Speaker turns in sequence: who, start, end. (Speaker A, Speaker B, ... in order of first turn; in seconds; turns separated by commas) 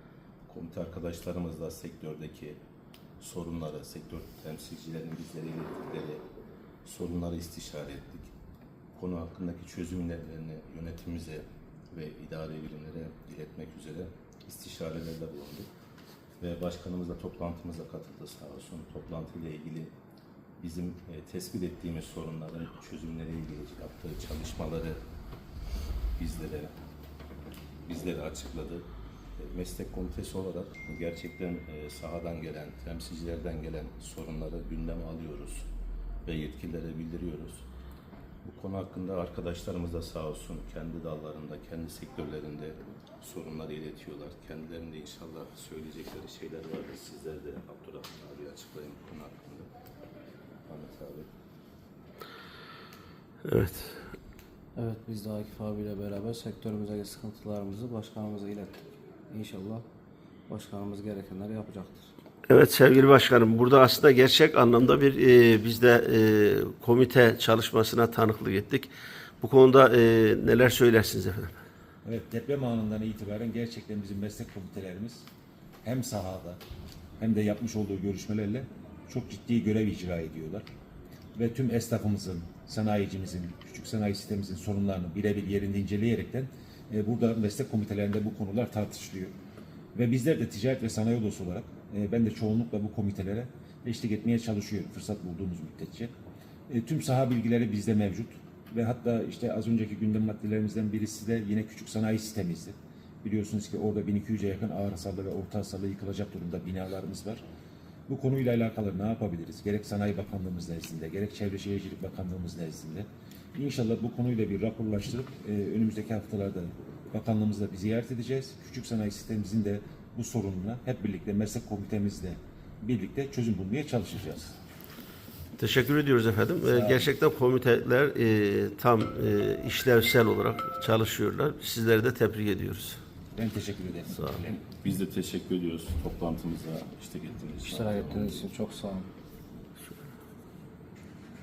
Speaker A: 0.5-2.6, Speaker A: 3.2-6.2, Speaker A: 6.8-8.3, Speaker A: 8.9-15.7, Speaker A: 16.4-19.9, Speaker A: 20.6-25.0, Speaker A: 26.2-26.7, Speaker A: 27.9-28.9, Speaker A: 29.4-35.7, Speaker A: 36.2-37.6, Speaker A: 38.4-49.7, Speaker A: 50.7-51.3, Speaker B: 53.4-54.0, Speaker C: 54.8-59.8, Speaker C: 60.5-62.1, Speaker B: 62.5-68.9, Speaker B: 69.4-71.5, Speaker D: 72.0-75.3, Speaker D: 75.8-76.6, Speaker D: 77.2-80.6, Speaker D: 81.3-89.3, Speaker D: 89.9-96.1, Speaker D: 96.7-107.4, Speaker D: 108.1-124.6, Speaker B: 125.6-133.0, Speaker D: 126.6-127.1, Speaker D: 133.3-134.6, Speaker A: 134.6-138.5, Speaker C: 137.7-139.1